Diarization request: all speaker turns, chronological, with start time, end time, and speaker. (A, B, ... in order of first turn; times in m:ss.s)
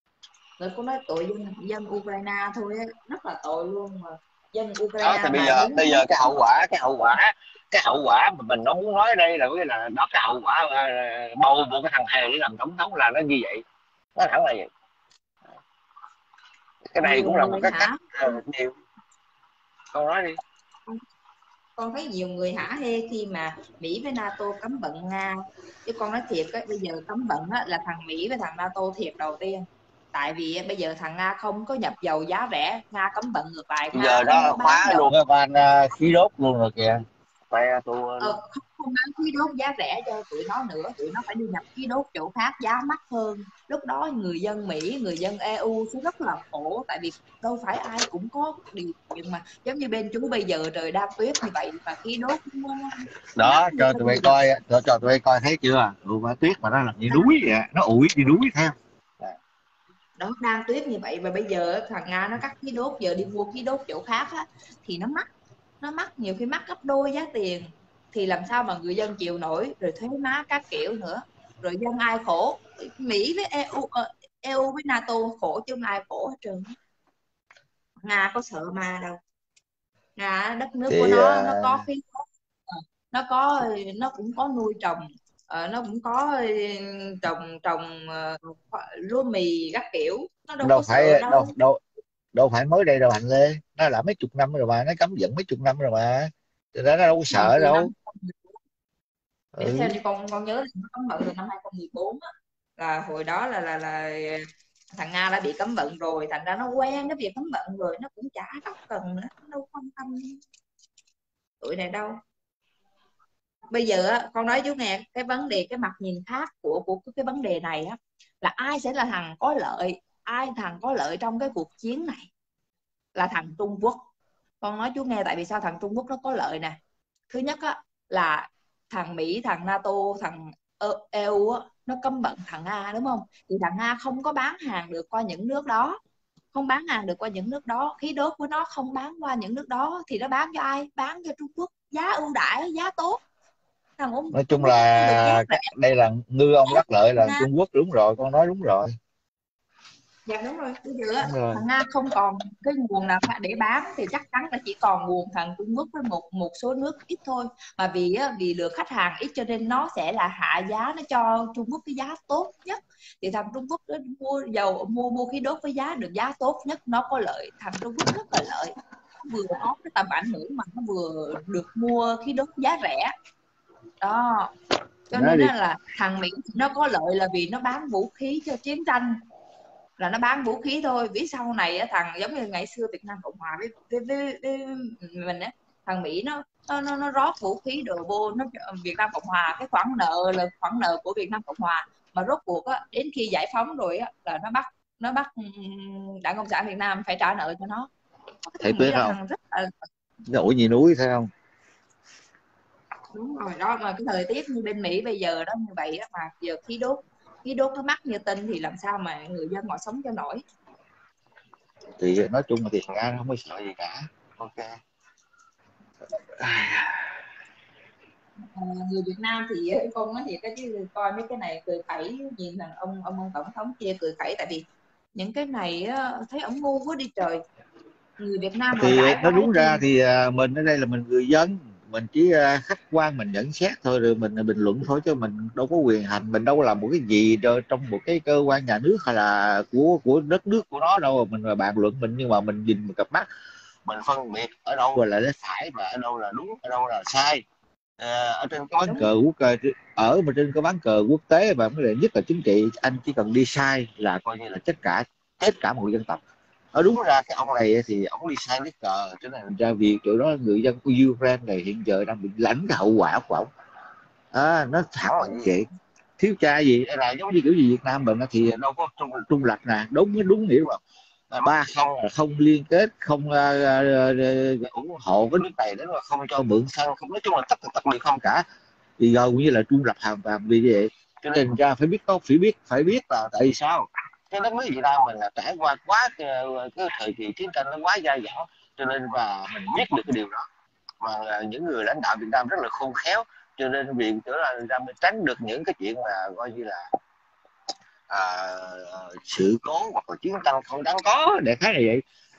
0:00.6-0:06.1 A
0:05.0-0:13.6 B
0:14.2-0:14.7 B
0:16.9-0:18.7 B
0:17.0-0:18.0 A
0:19.9-0:20.4 B
0:21.8-0:35.1 A
0:34.0-0:37.0 C
0:37.5-0:38.4 B
0:38.2-0:54.3 A
0:53.4-0:58.8 C
1:00.2-1:05.3 A
1:05.8-1:16.7 A
1:18.0-1:19.2 A
1:20.2-1:31.5 A
1:20.9-1:21.8 C
1:30.6-1:31.8 C
1:32.3-1:37.9 C
1:37.3-1:38.4 A
1:39.5-1:40.0 C
1:39.6-1:42.2 A
1:42.8-1:50.4 A
1:51.6-1:52.2 A
1:53.7-2:02.3 A
2:03.2-2:04.0 A
2:04.6-2:06.8 A
2:07.3-2:16.0 A
2:16.5-2:23.2 A
2:24.0-2:25.7 A
2:24.3-2:29.0 C
2:26.7-2:27.5 A
2:30.3-2:53.1 A
2:31.2-2:31.6 C
2:54.0-2:54.5 A
2:55.1-2:59.2 A
2:55.1-2:55.5 C
3:00.0-3:17.9 A
3:18.4-3:19.7 A
3:18.6-3:19.2 C
3:20.3-3:21.3 C
3:23.1-3:30.4 A
3:32.0-3:34.6 C
3:36.4-3:37.0 C
3:38.4-3:44.6 A
3:45.1-3:47.4 A
3:48.2-3:49.8 A
3:48.8-4:03.3 C
4:03.8-4:07.4 C
4:08.0-4:16.2 C
4:08.8-4:09.1 A
4:16.7-4:23.5 C
4:24.3-4:25.7 C
4:26.2-4:30.8 C
4:31.3-4:38.4 C
4:39.0-4:50.4 C
4:45.1-4:45.8 B
4:46.7-4:48.2 B
4:51.0-4:56.8 C
4:58.1-5:02.0 C